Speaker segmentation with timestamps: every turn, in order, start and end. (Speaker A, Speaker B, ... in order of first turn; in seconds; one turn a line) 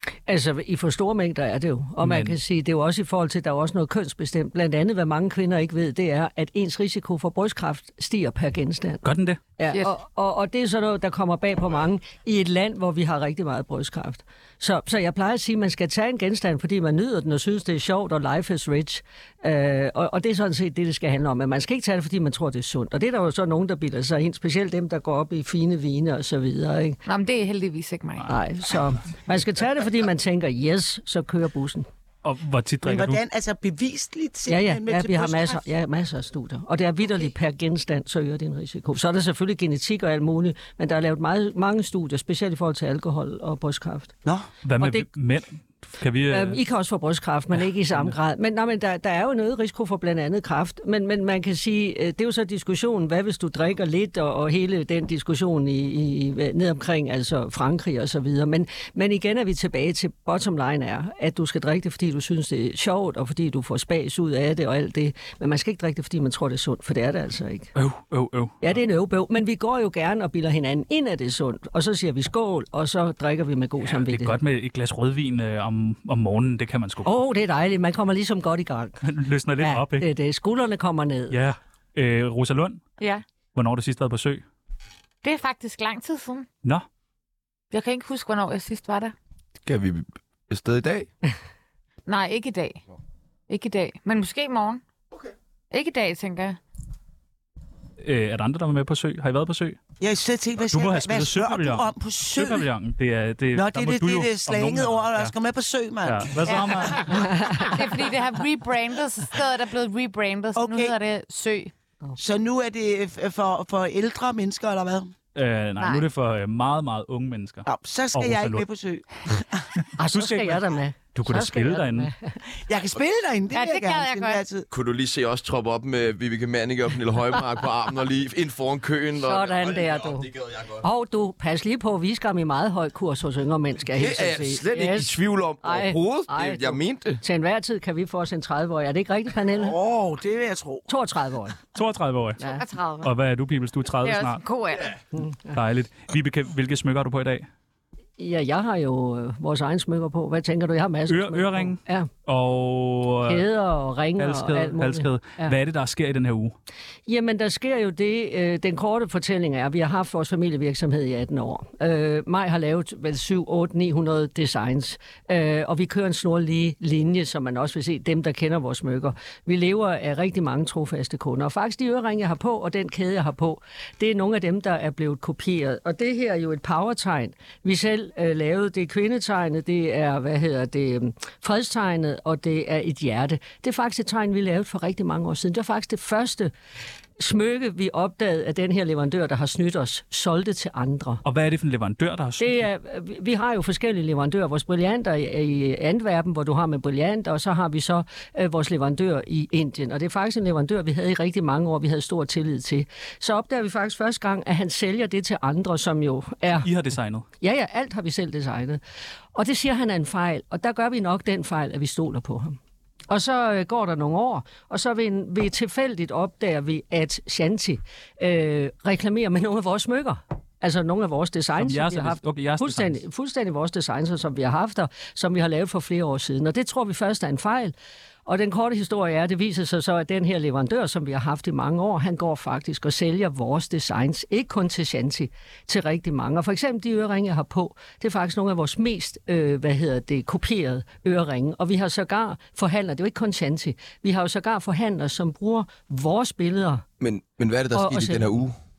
Speaker A: 0.2-9.0
Speaker B: 2.0-2.4
Speaker B: 9.0-9.4
Speaker A: 9.6-27.0
Speaker C: 27.0-28.3
Speaker A: 28.2-31.9
Speaker B: 32.2-33.2
Speaker D: 32.8-35.6
Speaker A: 34.5-44.1
Speaker B: 44.6-46.6
Speaker A: 44.8-45.1
Speaker A: 46.3-67.7
Speaker B: 67.7-68.8
Speaker A: 68.6-74.4
Speaker B: 73.8-77.1
Speaker A: 77.0-79.0
Speaker B: 79.0-80.1
Speaker A: 79.6-81.4
Speaker B: 81.3-82.8
Speaker B: 83.5-84.4
Speaker C: 85.2-86.5
Speaker C: 87.7-89.1
Speaker E: 89.6-91.1
Speaker C: 92.0-92.8
Speaker C: 93.5-94.8
Speaker C: 95.7-96.6
Speaker B: 98.0-99.8
Speaker D: 100.0-102.7
Speaker B: 100.6-105.3
Speaker D: 103.5-106.4
Speaker B: 106.0-107.3
Speaker C: 106.4-111.7
Speaker D: 110.5-110.9
Speaker D: 112.2-115.1
Speaker B: 115.3-118.7
Speaker C: 115.8-116.0
Speaker D: 117.7-119.7
Speaker A: 120.0-122.4
Speaker B: 120.1-122.1
Speaker D: 122.5-124.7
Speaker C: 123.5-124.4
Speaker E: 124.7-130.8
Speaker A: 129.1-139.7
Speaker E: 133.9-137.2
Speaker D: 139.5-140.9
Speaker A: 140.9-141.6
Speaker B: 141.7-142.4
Speaker C: 142.4-143.1
Speaker B: 143.0-144.4
Speaker C: 144.0-144.9
Speaker A: 145.2-145.6
Speaker B: 145.5-147.5
Speaker A: 148.2-152.1
Speaker B: 151.1-153.5
Speaker A: 153.2-155.6
Speaker B: 154.2-156.5
Speaker A: 157.1-186.5
Speaker A: 187.2-191.2
Speaker B: 191.2-192.7
Speaker A: 192.4-206.7
Speaker B: 206.6-207.2
Speaker A: 207.4-208.8
Speaker A: 209.3-212.6
Speaker A: 213.1-227.7
Speaker B: 221.6-223.0
Speaker A: 228.2-246.8
Speaker E: 247.0-248.5
Speaker A: 247.7-248.3